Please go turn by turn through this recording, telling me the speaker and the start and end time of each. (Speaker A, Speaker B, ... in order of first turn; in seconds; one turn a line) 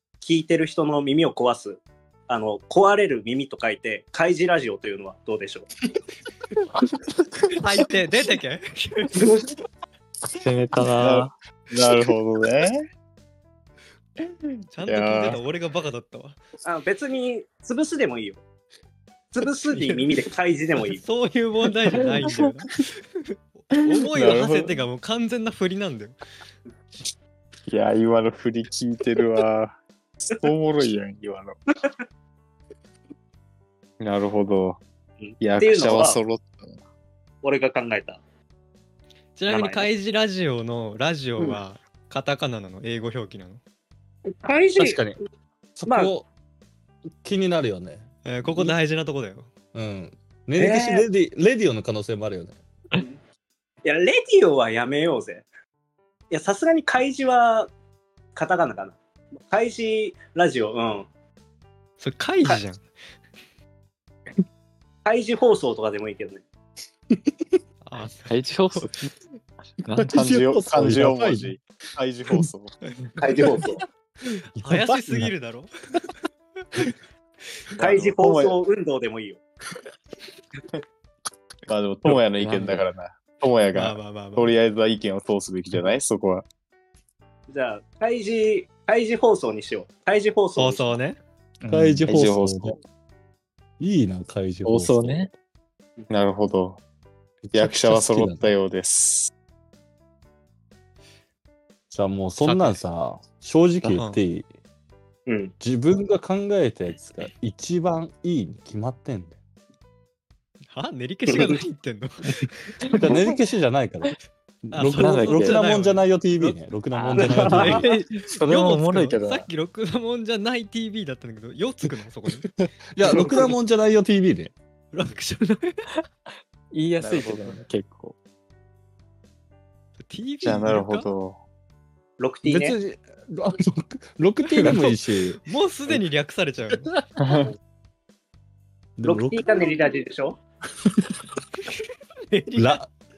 Speaker A: 0.2-5.7
Speaker B: 7.6-9.2
Speaker C: 10.3-11.3
Speaker D: 11.0-12.8
Speaker B: 14.7-16.4
Speaker D: 14.9-15.4
Speaker A: 16.6-18.4
Speaker A: 19.3-21.0
Speaker B: 19.8-20.0
Speaker B: 20.9-26.2
Speaker D: 24.1-24.8
Speaker D: 27.7-31.6
Speaker D: 34.0-34.8
Speaker A: 35.2-36.2
Speaker D: 35.4-36.8
Speaker A: 37.4-38.2
Speaker B: 39.4-43.6
Speaker A: 39.5-39.9
Speaker A: 44.4-45.1
Speaker E: 44.8-45.2
Speaker E: 45.8-46.3
Speaker E: 47.2-48.1
Speaker B: 48.2-49.5
Speaker E: 49.7-52.6
Speaker A: 50.6-51.0
Speaker A: 53.8-55.5
Speaker A: 56.3-57.7
Speaker A: 58.4-61.1
Speaker B: 62.0-62.9
Speaker A: 65.0-66.4
Speaker B: 67.8-68.9
Speaker C: 68.3-69.1
Speaker C: 69.8-70.2
Speaker E: 70.0-71.5
Speaker D: 70.1-72.7
Speaker A: 73.2-73.8
Speaker E: 74.6-75.3
Speaker B: 74.6-75.7
Speaker D: 77.8-78.5
Speaker A: 77.8-79.4
Speaker D: 81.7-86.5
Speaker C: 82.1-82.8
Speaker B: 83.7-84.5
Speaker A: 87.5-91.0
Speaker B: 90.6-91.2
Speaker C: 91.6-92.3
Speaker E: 91.7-92.8
Speaker D: 92.1-92.8
Speaker E: 93.8-95.3
Speaker C: 94.7-95.3
Speaker D: 96.1-96.8
Speaker E: 97.5-98.5
Speaker D: 97.5-99.3
Speaker E: 101.9-104.5
Speaker B: 102.4-102.8
Speaker B: 103.8-104.2
Speaker A: 105.3-105.5
Speaker E: 105.6-109.4
Speaker B: 110.7-112.9
Speaker A: 111.3-111.6
Speaker C: 112.9-113.2
Speaker E: 112.9-117.9
Speaker B: 114.7-116.5
Speaker C: 115.0-115.6
Speaker C: 116.9-119.5
Speaker A: 117.2-117.8
Speaker B: 117.4-122.5
Speaker E: 123.0-124.5
Speaker B: 124.9-125.9
Speaker C: 126.7-128.2
Speaker D: 127.0-127.6
Speaker B: 130.0-131.1
Speaker D: 130.4-131.4
Speaker A: 132.2-132.8
Speaker E: 132.4-136.0
Speaker B: 134.5-136.9
Speaker C: 137.2-137.5
Speaker E: 139.0-139.6
Speaker A: 139.0-140.4
Speaker B: 142.3-142.8
Speaker E: 142.6-142.9